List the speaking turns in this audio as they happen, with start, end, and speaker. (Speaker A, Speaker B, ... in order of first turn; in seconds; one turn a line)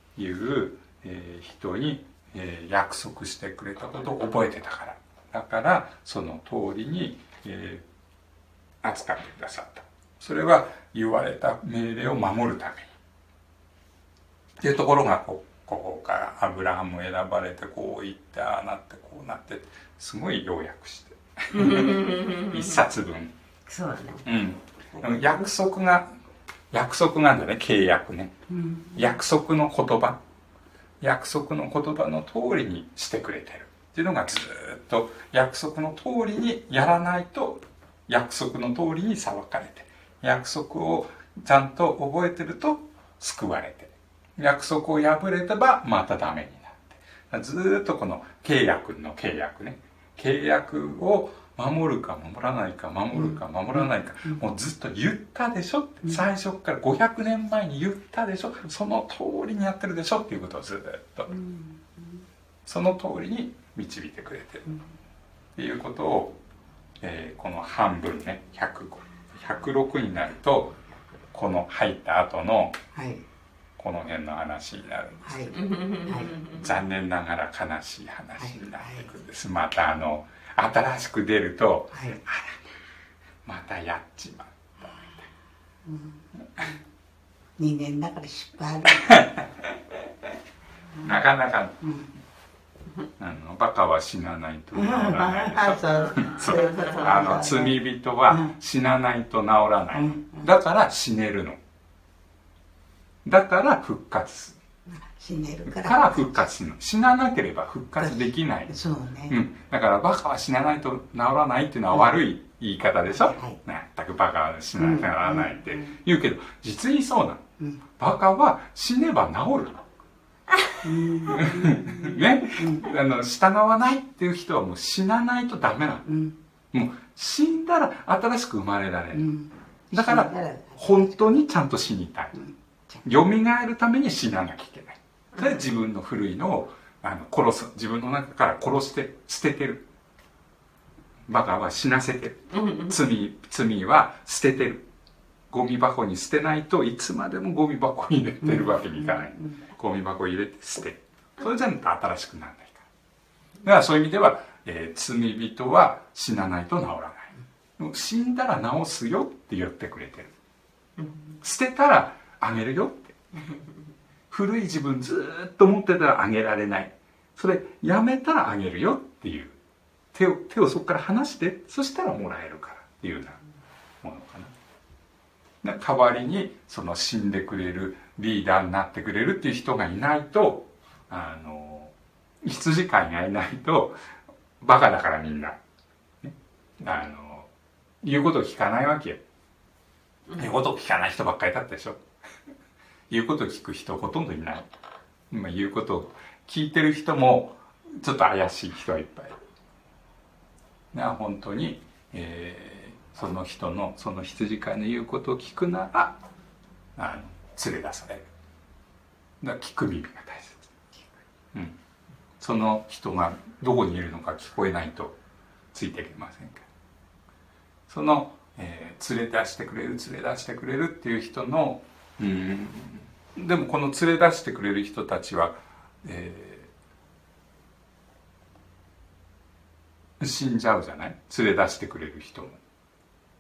Speaker A: 0.2-7.8
Speaker A: 8.8-12.9
Speaker A: 14.6-23.3
Speaker B: 21.5-22.8
Speaker B: 23.7-24.2
Speaker A: 24.2-26.1
Speaker B: 25.0-25.3
Speaker A: 26.7-28.4
Speaker C: 28.5-29.1
Speaker A: 28.9-30.2
Speaker A: 31.0-61.4
Speaker C: 61.3-62.0
Speaker A: 62.7-64.7
Speaker A: 65.6-66.4
Speaker A: 67.0-70.8
Speaker A: 71.3-72.8
Speaker C: 72.9-73.3
Speaker A: 73.8-82.7
Speaker C: 75.2-76.4
Speaker B: 75.6-76.5
Speaker C: 78.4-79.1
Speaker C: 81.9-82.2
Speaker A: 83.5-85.3
Speaker C: 85.8-86.7
Speaker C: 87.6-89.3
Speaker A: 88.9-89.8
Speaker A: 91.0-91.8
Speaker C: 91.8-92.1
Speaker A: 93.2-101.6
Speaker C: 94.7-98.5
Speaker B: 96.5-97.1
Speaker C: 99.9-100.5
Speaker A: 103.2-104.6
Speaker C: 104.9-106.4
Speaker A: 105.7-108.8
Speaker C: 108.0-109.4
Speaker A: 109.3-117.5
Speaker C: 113.2-113.6
Speaker C: 114.8-116.0
Speaker A: 118.0-119.8
Speaker C: 120.8-122.9
Speaker A: 121.3-126.1
Speaker C: 126.1-126.4
Speaker A: 126.7-129.3
Speaker C: 129.1-131.4
Speaker A: 129.9-132.4
Speaker C: 132.3-133.0
Speaker A: 133.1-139.9
Speaker A: 141.3-144.9
Speaker A: 145.5-152.9
Speaker C: 148.4-149.6
Speaker A: 153.6-160.3
Speaker A: 161.4-163.2
Speaker A: 164.3-169.6
Speaker A: 170.1-173.4
Speaker A: 174.0-174.5
Speaker A: 175.6-184.0
Speaker A: 184.6-185.6
Speaker A: 186.2-187.5
Speaker A: 188.0-189.2
Speaker A: 190.3-192.0
Speaker A: 193.1-194.7
Speaker A: 195.3-199.4
Speaker A: 200.9-206.2
Speaker A: 207.0-208.3
Speaker A: 209.4-210.6
Speaker A: 212.4-215.2
Speaker A: 215.7-216.7
Speaker A: 217.9-226.7
Speaker A: 230.2-232.6